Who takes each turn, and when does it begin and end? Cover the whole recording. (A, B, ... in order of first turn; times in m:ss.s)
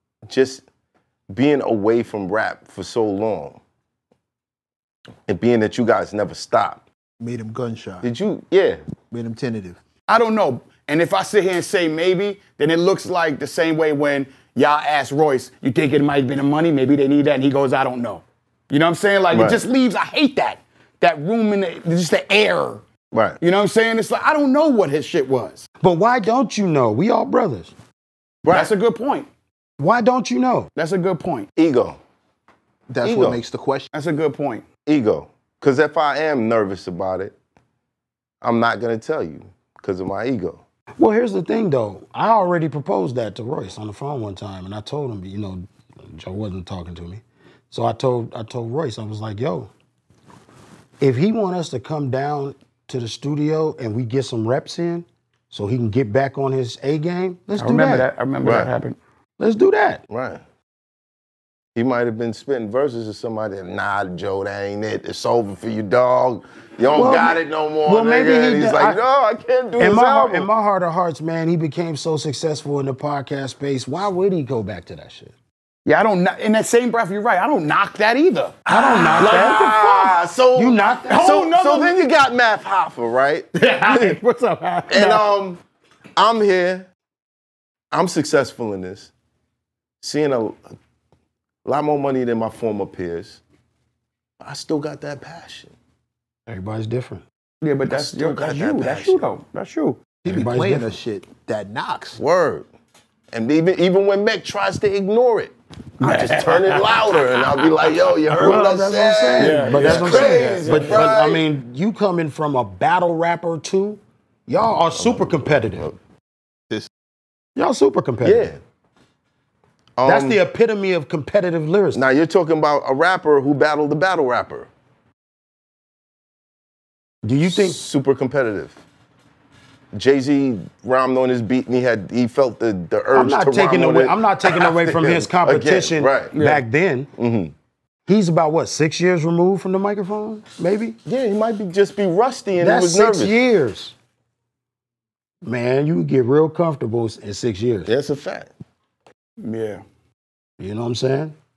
0:00.3-0:00.6 A
0:01.3-0:03.6 A
0:05.3-0:06.8 A
0:07.2-0:08.1 B
0:08.0-0:08.8 A
0:09.1-0:09.8 B
0:10.1-0:22.8 C
0:19.3-0:19.6 A
0:23.1-0:23.4 A
0:23.4-0:25.6 C
0:25.8-0:27.7 D
0:28.5-0:29.3 C
0:29.8-0:30.7 D
0:30.8-0:31.5 C
0:31.6-0:32.0 A
0:32.9-0:33.9 B
0:33.0-0:33.4 A
0:33.9-0:34.6 C
0:34.9-0:37.3 A
0:38.4-0:40.6 A
0:41.0-0:49.7 D
0:51.0-0:58.1 D
0:57.6-0:59.0 C
0:58.4-0:58.7 A
0:59.4-1:00.0 D
1:00.1-1:00.4 A
1:01.8-1:10.5 A
1:06.9-1:09.0 D
1:09.8-1:15.3 D
1:15.8-1:18.6 C
1:18.7-1:24.2 A
1:18.7-1:19.6 D
1:19.2-1:20.2 C
1:20.5-1:21.3 D
1:21.0-1:21.9 C
1:23.6-1:25.2 C
1:24.9-1:25.6 A
1:26.2-1:26.9 A
1:27.9-1:29.1 A
1:30.0-1:30.6 A
1:31.6-1:33.4 A
1:34.4-1:35.7 A
1:36.5-1:37.2 D
1:37.6-1:40.0 C
1:37.9-1:39.2 A
1:40.2-1:42.2 B
1:40.3-1:40.9 D
1:42.2-1:42.7 A
1:43.3-1:51.4 A
1:46.0-1:46.8 C
1:48.4-1:55.9 D
1:49.4-1:51.1 C
1:54.9-1:56.0 A
1:57.6-1:58.5 D
1:58.2-1:58.6 A
2:00.0-2:00.4 A
2:00.0-2:02.0 D
2:01.9-2:04.7 A
2:07.2-2:07.8 D
2:07.4-2:08.8 A
2:09.9-2:16.3 A
2:13.1-2:17.1 D
2:16.3-2:16.6 C
2:17.2-2:17.5 A
2:18.1-2:21.0 D
2:21.0-2:23.4 A
2:22.6-2:23.9 D
2:25.4-2:27.9 D
2:27.8-2:28.5 A
2:29.4-2:29.8 C
2:30.6-2:31.3 D